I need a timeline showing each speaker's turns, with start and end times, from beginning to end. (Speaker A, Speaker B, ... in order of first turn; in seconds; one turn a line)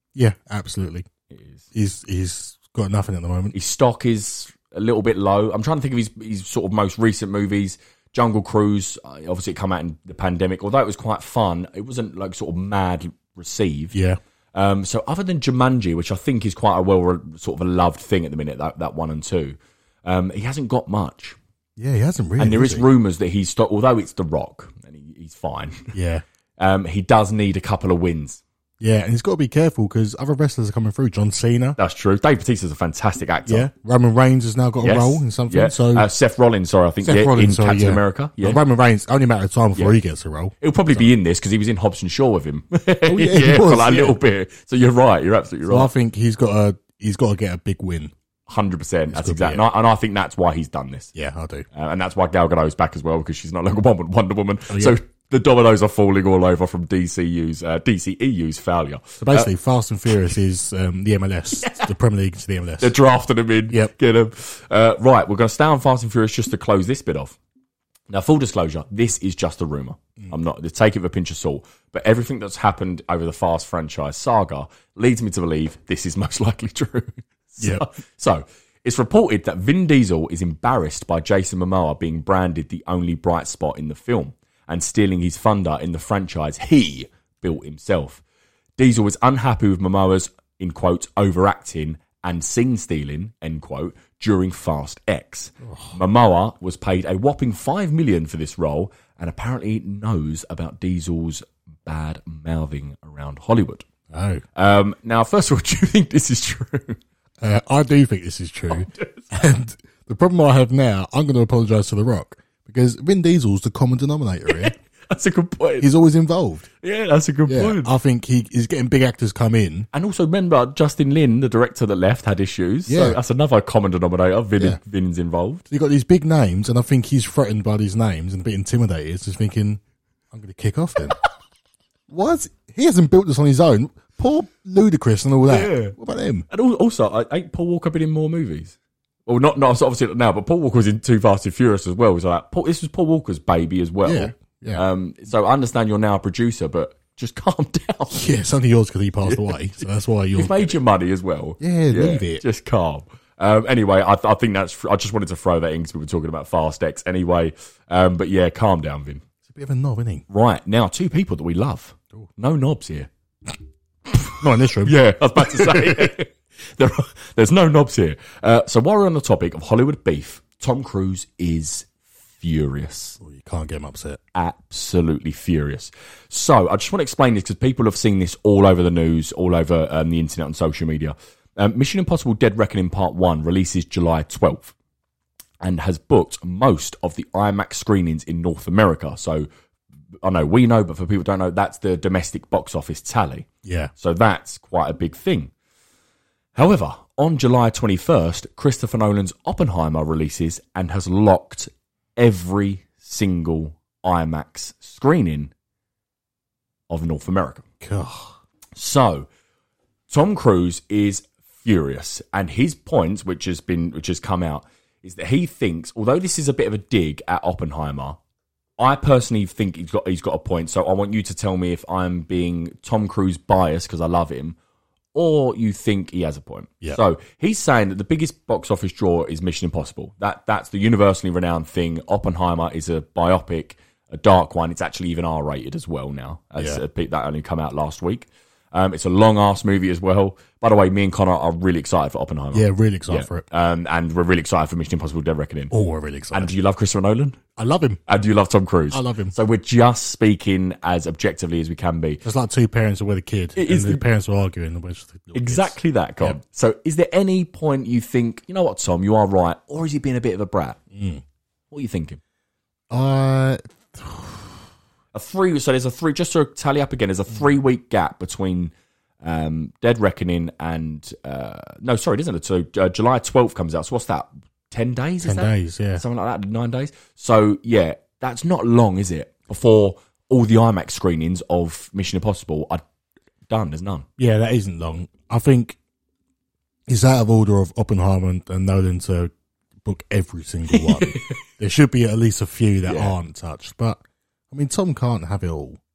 Speaker A: 0.1-1.1
Speaker B: 1.3-1.6
Speaker A: 1.7-3.5
Speaker B: 3.5-13.9
Speaker A: 13.9-14.2
Speaker B: 14.5-21.4
Speaker A: 21.8-22.9
Speaker B: 22.4-25.9
Speaker A: 25.9-26.2
Speaker B: 26.6-28.4
Speaker A: 28.8-31.8
Speaker B: 31.8-33.7
Speaker A: 33.5-36.1
Speaker B: 34.8-38.6
Speaker A: 37.0-41.1
Speaker B: 40.6-45.9
Speaker A: 43.0-44.2
Speaker A: 45.6-48.1
Speaker B: 48.5-51.1
Speaker A: 49.1-49.6
Speaker A: 51.1-51.7
Speaker B: 51.7-59.5
Speaker A: 54.7-55.0
Speaker A: 59.2-62.9
Speaker B: 61.5-61.9
Speaker B: 62.8-67.4
Speaker B: 68.1-88.2
Speaker B: 88.8-103.9
Speaker A: 95.6-96.0
Speaker A: 104.1-104.4
Speaker B: 104.5-107.0
Speaker A: 107.4-114.8
Speaker B: 108.7-109.3
Speaker B: 114.5-115.9
Speaker A: 115.8-116.7
Speaker B: 116.8-117.9
Speaker A: 117.5-119.9
Speaker B: 119.9-125.7
Speaker A: 122.9-123.2
Speaker A: 125.7-131.2
Speaker A: 132.1-136.5
Speaker B: 135.5-135.9
Speaker B: 136.5-148.3
Speaker A: 144.0-144.8
Speaker A: 148.1-150.7
Speaker B: 149.2-159.2
Speaker A: 151.6-152.4
Speaker A: 159.4-160.2
Speaker B: 160.3-163.1
Speaker B: 164.1-173.2
Speaker A: 164.3-166.1
Speaker A: 173.2-174.2
Speaker B: 174.3-184.7
Speaker B: 185.6-189.5
Speaker B: 190.2-195.5
Speaker A: 193.6-193.9
Speaker B: 196.5-205.5
Speaker B: 206.9-207.6
Speaker A: 207.8-208.4
Speaker B: 208.8-209.3
Speaker B: 210.1-218.2
Speaker B: 218.8-224.6
Speaker B: 225.1-245.7
Speaker A: 242.5-243.4
Speaker A: 245.7-246.5
Speaker B: 246.3-247.4
Speaker A: 247.6-248.0
Speaker B: 248.1-252.2
Speaker A: 248.9-249.3
Speaker A: 252.2-256.4
Speaker B: 253.6-254.0
Speaker B: 255.3-260.8
Speaker A: 260.9-261.2
Speaker B: 261.7-262.2
Speaker A: 262.9-264.5
Speaker B: 265.1-282.8
Speaker A: 275.2-276.0
Speaker B: 283.5-284.1
Speaker A: 284.2-285.8
Speaker A: 286.9-289.3
Speaker A: 289.8-294.0
Speaker B: 290.7-291.4
Speaker B: 292.8-293.1
Speaker A: 294.5-295.8